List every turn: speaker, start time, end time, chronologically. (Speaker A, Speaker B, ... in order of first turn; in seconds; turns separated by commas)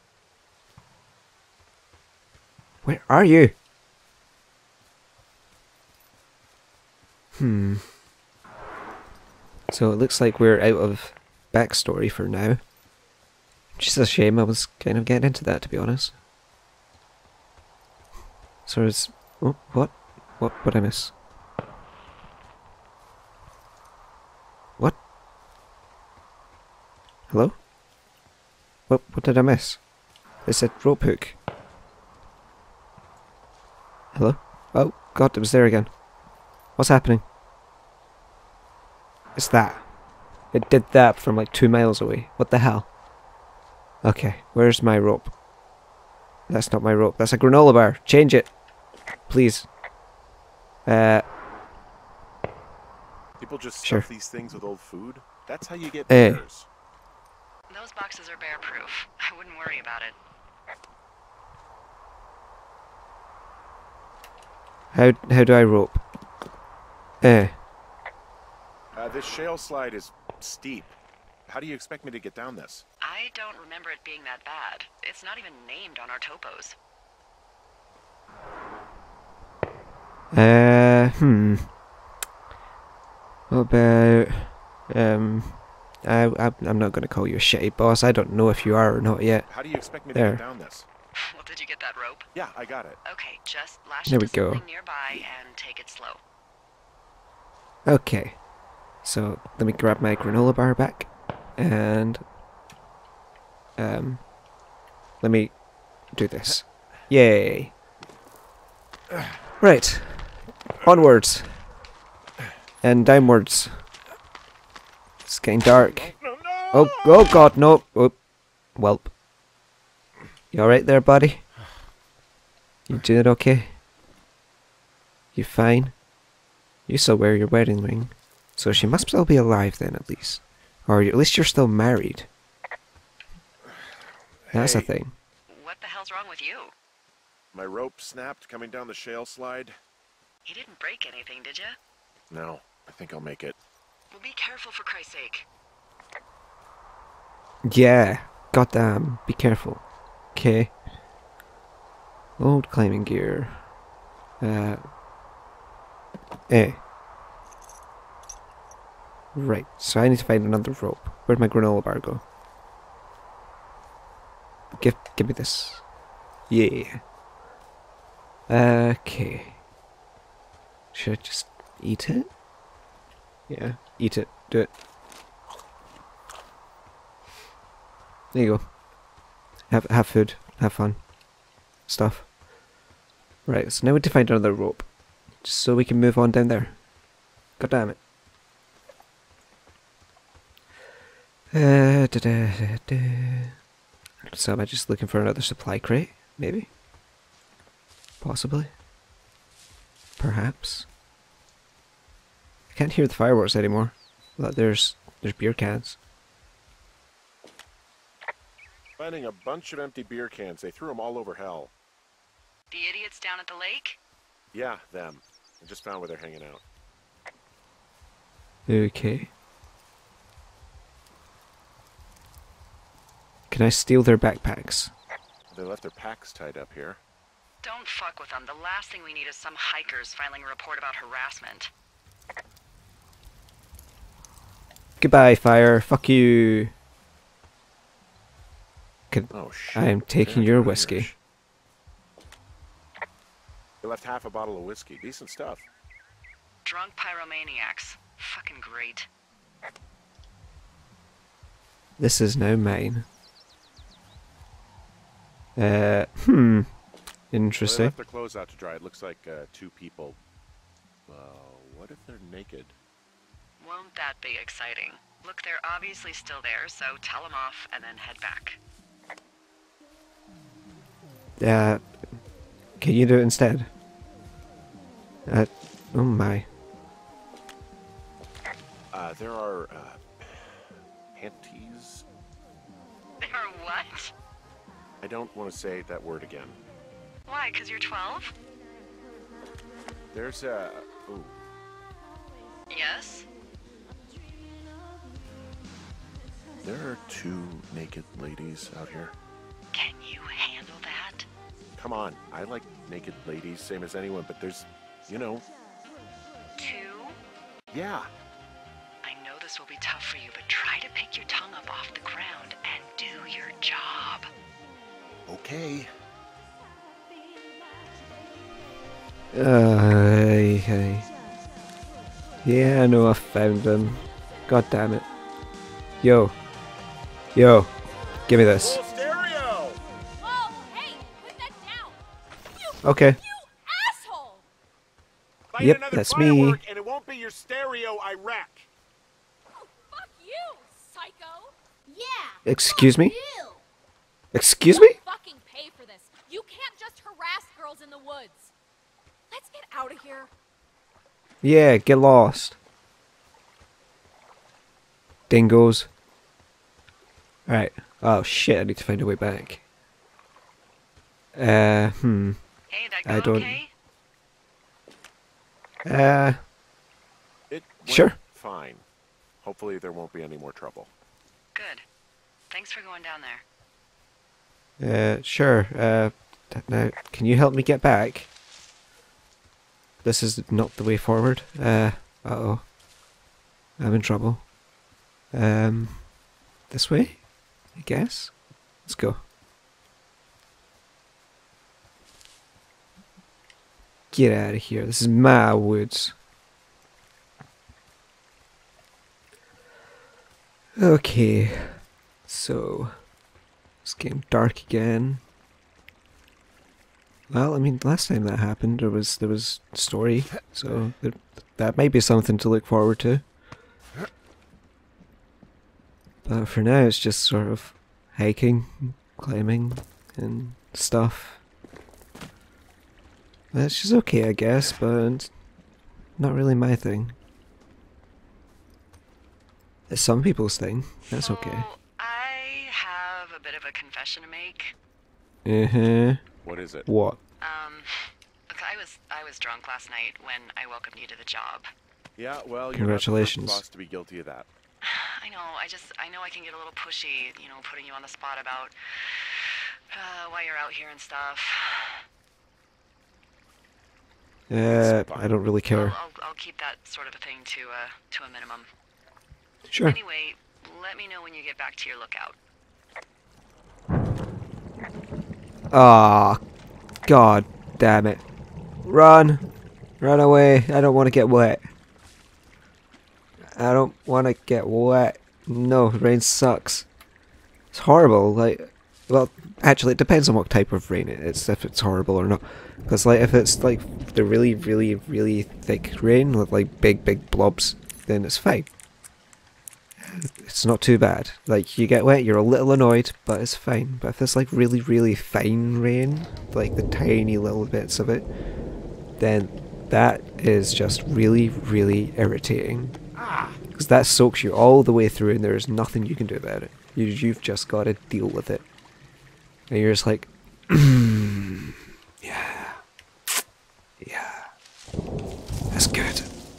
Speaker A: 2.8-3.5, Speaker A: 7.3-7.9, Speaker A: 9.7-12.6, Speaker A: 13.8-16.1, Speaker A: 18.7-21.1, Speaker A: 27.3-27.6, Speaker A: 28.9-29.8, Speaker A: 30.4-31.4, Speaker A: 34.1-35.9, Speaker A: 36.8-37.2, Speaker A: 39.4-39.8, Speaker A: 40.5-42.9, Speaker A: 44.0-45.3, Speaker A: 46.5-48.5, Speaker A: 49.3-49.7, Speaker A: 50.9-51.2, Speaker B: 53.4-56.7, Speaker A: 56.1-56.4, Speaker C: 57.7-60.2, Speaker A: 64.9-66.0, Speaker A: 67.2-67.6, Speaker B: 69.0-70.9, Speaker B: 71.5-72.8, Speaker C: 73.0-76.8, Speaker A: 80.3-81.7, Speaker A: 83.5-89.5, Speaker B: 89.5-90.9, Speaker A: 90.1-90.4, Speaker C: 91.2-92.3, Speaker B: 92.3-93.0, Speaker C: 93.0-96.2, Speaker A: 94.1-94.6, Speaker A: 97.9-98.4, Speaker A: 99.0-102.2, Speaker A: 103.8-104.3, Speaker A: 105.2-105.5, Speaker A: 106.1-107.7, Speaker A: 109.6-111.6, Speaker A: 112.8-113.8, Speaker A: 115.2-116.2, Speaker B: 115.8-117.2, Speaker A: 116.7-118.2, Speaker A: 118.8-119.1, Speaker A: 120.5-121.5, Speaker A: 122.9-123.8, Speaker A: 125.3-126.0, Speaker A: 126.9-132.3, Speaker B: 134.5-134.9, Speaker A: 134.5-135.1, Speaker C: 135.5-136.7, Speaker B: 137.5-139.8, Speaker C: 140.4-141.8, Speaker B: 142.3-143.6, Speaker C: 144.1-145.5, Speaker A: 147.6-149.8, Speaker A: 150.3-150.8, Speaker A: 152.4-153.6, Speaker A: 154.4-154.8, Speaker A: 156.5-156.8, Speaker A: 159.3-162.2, Speaker A: 164.7-165.8, Speaker A: 166.5-167.0, Speaker A: 168.5-169.6, Speaker A: 170.9-172.3, Speaker A: 173.5-174.7, Speaker A: 178.3-178.7, Speaker A: 179.7-181.0, Speaker A: 181.9-182.3, Speaker A: 183.5-184.9, Speaker A: 185.4-186.8, Speaker A: 187.6-188.0, Speaker A: 191.5-193.6, Speaker A: 194.2-196.7, Speaker A: 198.2-198.7, Speaker A: 200.2-200.9, Speaker A: 202.7-206.0, Speaker B: 209.0-211.7, Speaker C: 212.7-214.0, Speaker B: 214.5-216.6, Speaker A: 218.7-219.3, Speaker A: 223.5-224.9, Speaker B: 225.5-227.0, Speaker C: 227.6-231.7, Speaker A: 235.0-236.7, Speaker A: 239.1-241.1, Speaker B: 239.3-241.2, Speaker B: 243.8-245.7, Speaker C: 246.7-249.1, Speaker A: 252.0-253.1, Speaker A: 255.6-256.7, Speaker A: 257.3-257.9, Speaker B: 257.6-260.2, Speaker B: 261.1-262.8, Speaker C: 263.6-268.6, Speaker A: 271.4-271.9, Speaker A: 272.8-273.7, Speaker A: 275.3-276.5, Speaker B: 278.9-282.1, Speaker C: 283.2-284.1, Speaker B: 285.0-286.6, Speaker C: 287.3-288.3, Speaker B: 290.1-291.4, Speaker C: 292.7-293.3, Speaker B: 296.6-299.1, Speaker C: 299.7-301.3, Speaker B: 301.8-305.5, Speaker C: 306.6-307.2, Speaker B: 307.7-308.1, Speaker C: 309.0-314.3, Speaker B: 315.3-315.9, Speaker A: 319.3-321.1, Speaker A: 322.4-325.1, Speaker A: 326.0-326.3, Speaker A: 327.3-327.7, Speaker A: 328.3-328.8, Speaker B: 328.6-329.8, Speaker D: 330.2-332.0, Speaker D: 332.5-334.5, Speaker A: 332.8-333.2, Speaker B: 335.5-338.7, Speaker A: 335.6-336.6, Speaker D: 339.6-343.6, Speaker A: 342.4-343.1, Speaker A: 344.3-345.0, Speaker D: 344.7-348.5, Speaker D: 349.3-350.3, Speaker A: 351.4-352.6, Speaker A: 355.3-355.9, Speaker A: 357.5-359.6, Speaker A: 361.3-362.4, Speaker C: 362.7-363.7, Speaker A: 363.1-363.6, Speaker A: 365.9-366.4, Speaker B: 367.5-368.8, Speaker A: 367.9-368.2, Speaker B: 369.4-370.9, Speaker C: 371.6-371.8, Speaker C: 372.5-373.4, Speaker A: 374.8-378.3, Speaker A: 380.0-382.7, Speaker A: 383.8-384.5, Speaker A: 385.3-386.1, Speaker A: 386.7-387.2, Speaker A: 387.8-388.3, Speaker A: 388.9-389.2, Speaker A: 394.1-396.1, Speaker A: 400.8-403.0, Speaker A: 403.8-405.2, Speaker A: 407.3-413.2, Speaker A: 416.2-421.4, Speaker A: 423.5-425.3, Speaker A: 426.2-427.2, Speaker A: 429.9-431.7, Speaker C: 431.1-434.7, Speaker A: 435.4-436.2, Speaker B: 436.4-436.9, Speaker A: 436.9-437.2, Speaker C: 437.4-441.7, Speaker B: 442.2-444.5, Speaker A: 442.7-443.6, Speaker C: 444.8-452.0, Speaker A: 454.5-455.9, Speaker B: 454.7-455.3, Speaker C: 455.7-458.7, Speaker A: 459.7-460.0, Speaker C: 459.8-462.4, Speaker A: 465.7-466.4, Speaker A: 467.1-468.2, Speaker A: 468.8-469.5, Speaker A: 470.0-471.6, Speaker A: 473.5-476.9, Speaker A: 477.7-488.7, Speaker A: 490.0-498.3, Speaker A: 499.2-503.0, Speaker B: 503.2-503.6, Speaker A: 503.7-508.6, Speaker A: 509.7-512.8, Speaker A: 514.0-514.5, Speaker A: 515.7-516.3